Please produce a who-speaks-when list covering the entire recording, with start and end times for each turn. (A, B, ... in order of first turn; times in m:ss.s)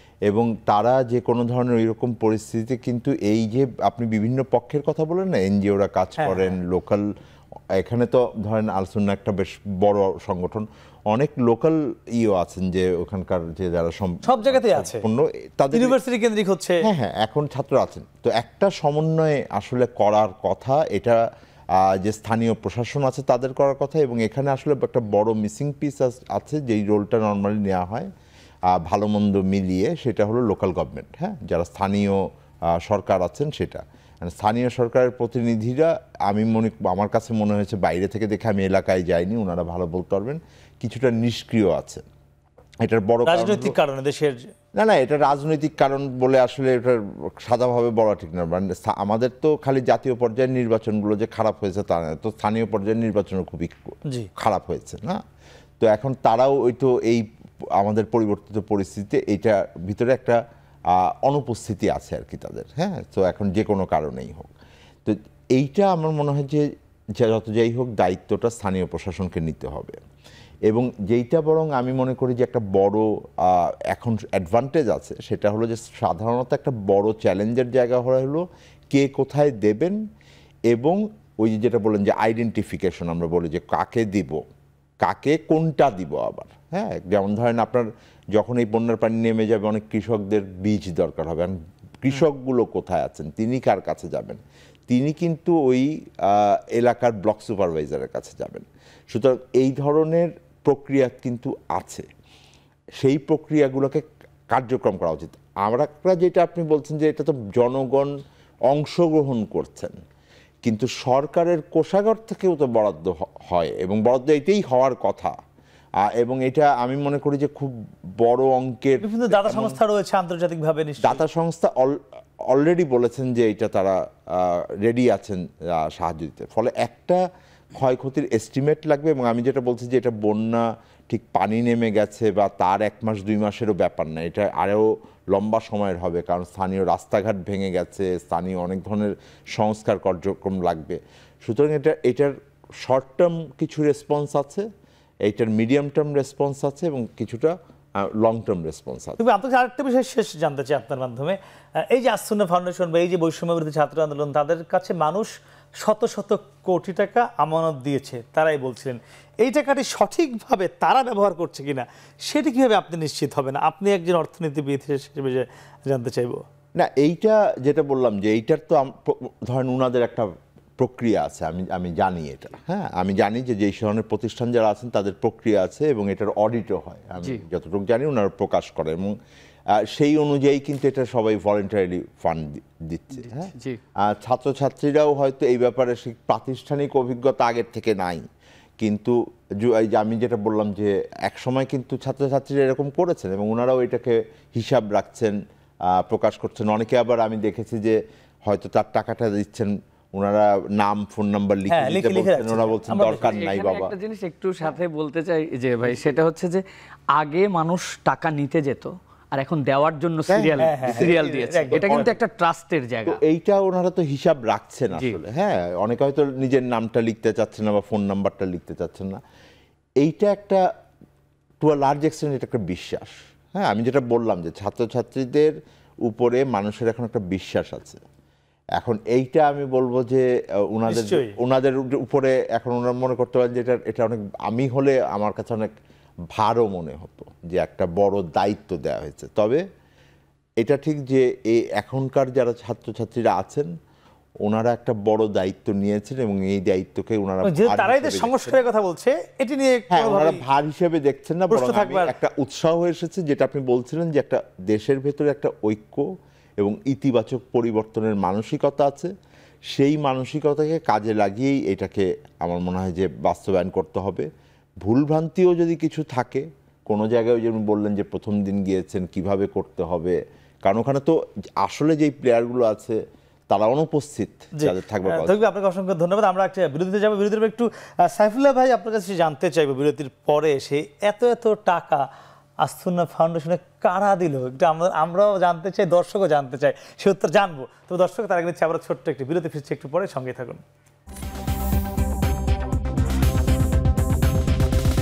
0:00.3-0:07.0 A
0:06.2-0:06.6 B
0:07.8-0:16.0 A
0:14.2-0:15.0 B
0:15.7-0:16.8 B
0:16.8-0:21.2 A
0:21.8-0:28.1 A
0:28.7-0:32.2 A
0:32.7-0:42.0 A
0:42.8-0:43.8 A
0:43.3-0:44.4 B
0:44.8-0:55.2 A
0:55.8-0:57.3 A
0:57.8-1:00.4 A
1:00.9-1:04.5 A
1:05.0-1:10.0 A
1:10.7-1:20.0 A
1:20.7-1:24.4 A
1:25.0-1:42.1 A
1:43.0-1:48.1 A
1:48.7-1:50.0 A
1:50.6-1:55.4 A
1:56.0-1:59.8 A
1:59.0-2:01.2 B
2:01.0-2:07.2 A
2:07.7-2:24.7 A
2:25.2-2:29.2 A
2:29.2-2:31.4 B
2:31.9-2:46.4 B
2:46.8-2:59.1 A
2:59.7-3:08.2 A
3:03.2-3:03.8 C
3:08.8-3:23.9 A
3:21.7-3:23.3 B
3:23.1-3:26.6 C
3:27.2-3:33.2 C
3:30.3-3:31.2 A
3:30.6-3:32.2 B
3:31.7-3:32.2 A
3:33.1-3:39.2 A
3:40.0-3:40.6 A
3:41.6-3:45.5 A
3:46.0-3:48.0 A
3:48.8-3:55.7 A
3:50.9-3:51.4 B
3:56.3-3:59.6 A
4:00.6-4:03.7 A
4:04.4-4:08.5 A
4:07.5-4:10.4 B
4:09.9-4:19.1 A
4:11.5-4:12.1 B
4:19.7-4:24.3 A
4:24.8-4:35.4 A
4:34.6-4:42.1 B
4:42.6-4:50.6 B